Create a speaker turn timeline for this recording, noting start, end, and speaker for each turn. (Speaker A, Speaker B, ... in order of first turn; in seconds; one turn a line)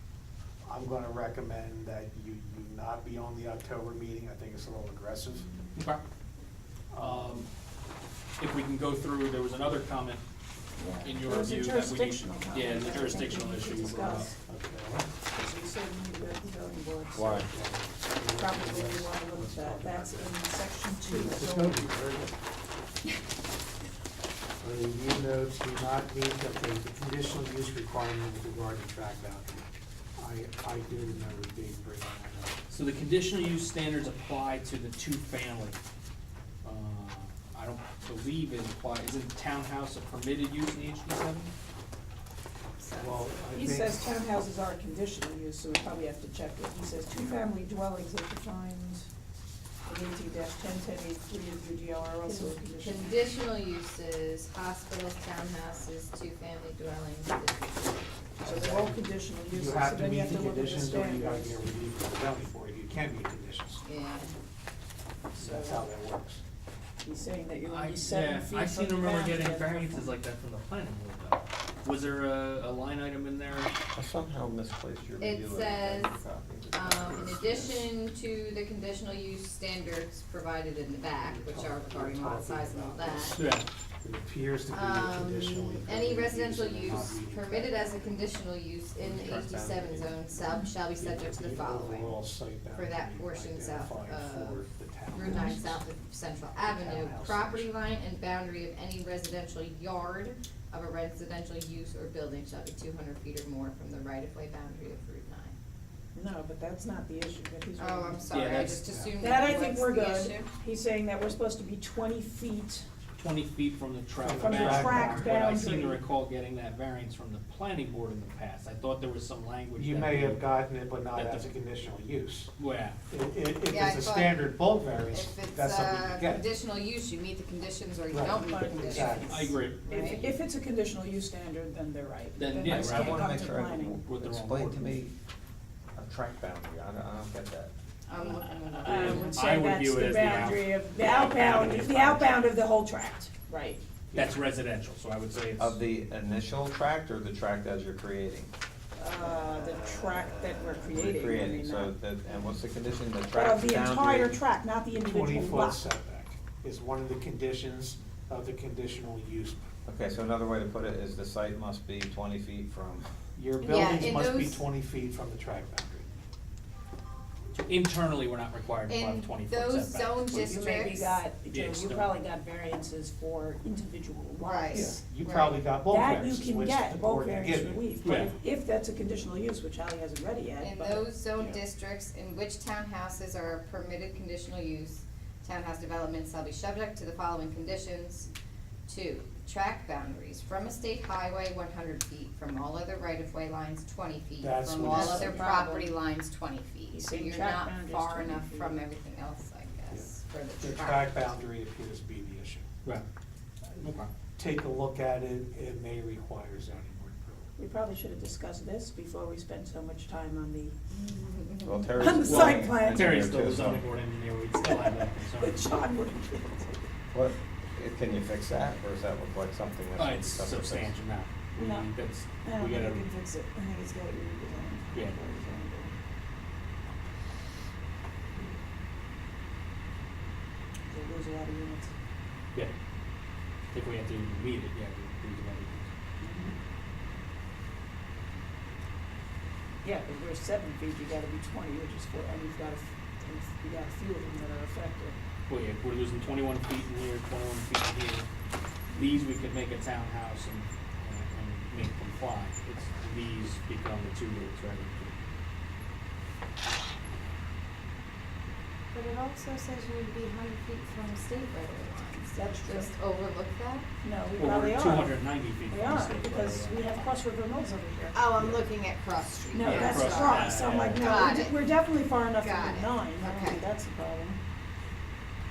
Speaker A: 0.6-5.5
Speaker B: 5.7-6.0
Speaker B: 6.9-7.5
Speaker B: 8.4-10.2
Speaker C: 10.8-14.4
Speaker B: 11.0-14.3
Speaker A: 14.4-15.1
Speaker C: 15.3-17.4
Speaker D: 17.1-17.5
Speaker A: 17.4-20.4
Speaker C: 18.2-21.9
Speaker A: 21.0-22.3
Speaker A: 24.6-32.5
Speaker B: 32.7-35.8
Speaker B: 36.6-41.5
Speaker E: 42.8-43.3
Speaker A: 43.0-44.2
Speaker C: 43.5-49.1
Speaker C: 49.9-53.2
Speaker E: 52.2-58.1
Speaker C: 58.4-61.7
Speaker A: 58.4-63.8
Speaker E: 63.8-64.4
Speaker C: 65.3-65.9
Speaker A: 65.4-66.4
Speaker C: 67.0-70.1
Speaker B: 67.7-73.7
Speaker D: 73.9-77.9
Speaker E: 75.2-76.2
Speaker E: 76.7-83.4
Speaker A: 81.2-88.2
Speaker B: 83.3-83.7
Speaker E: 84.7-92.1
Speaker D: 89.0-90.1
Speaker A: 91.0-95.8
Speaker E: 92.7-105.5
Speaker A: 96.6-97.8
Speaker C: 106.1-112.8
Speaker E: 107.8-110.5
Speaker B: 108.3-108.8
Speaker A: 108.8-109.2
Speaker B: 113.2-121.5
Speaker A: 114.2-115.4
Speaker C: 114.3-116.0
Speaker A: 119.8-122.5
Speaker B: 122.6-123.0
Speaker A: 123.1-126.5
Speaker E: 123.7-124.5
Speaker E: 125.1-130.2
Speaker A: 128.1-129.7
Speaker C: 128.3-134.0
Speaker B: 129.2-130.3
Speaker B: 132.4-133.3
Speaker D: 132.6-135.1
Speaker B: 134.0-135.0
Speaker D: 135.9-137.7
Speaker E: 138.1-139.3
Speaker B: 138.2-142.3
Speaker C: 138.8-143.8
Speaker B: 144.1-145.8
Speaker D: 145.6-148.5
Speaker C: 149.0-152.4
Speaker D: 150.9-154.4
Speaker C: 153.3-155.8
Speaker A: 155.0-159.7
Speaker D: 159.8-163.1
Speaker A: 163.3-166.1
Speaker E: 163.6-164.6
Speaker C: 163.6-164.0
Speaker B: 167.5-170.6
Speaker E: 168.9-171.2
Speaker C: 170.4-175.0
Speaker B: 171.5-172.1
Speaker E: 174.4-175.6
Speaker A: 174.7-177.9
Speaker C: 175.8-181.6
Speaker B: 178.0-178.3
Speaker E: 180.6-188.3
Speaker E: 188.9-201.3
Speaker A: 194.4-195.4
Speaker C: 194.8-195.9
Speaker C: 196.9-198.8
Speaker A: 199.9-202.7
Speaker B: 203.8-204.1
Speaker A: 204.3-207.5
Speaker C: 207.6-210.8
Speaker E: 210.9-211.8
Speaker D: 211.6-213.9
Speaker C: 211.9-213.3
Speaker B: 212.2-215.6
Speaker C: 214.6-216.7
Speaker D: 217.1-220.9
Speaker B: 219.9-223.1
Speaker C: 221.6-221.9
Speaker C: 222.4-225.9
Speaker B: 224.9-225.2
Speaker C: 230.9-231.9
Speaker B: 233.7-235.9
Speaker C: 236.2-236.5
Speaker C: 239.8-245.2
Speaker B: 245.5-248.3
Speaker B: 248.9-255.2
Speaker E: 258.9-263.9
Speaker C: 262.3-262.9
Speaker C: 264.0-268.3
Speaker B: 264.4-267.1
Speaker E: 268.1-271.6
Speaker C: 269.5-274.4
Speaker B: 269.6-271.3
Speaker E: 272.4-273.6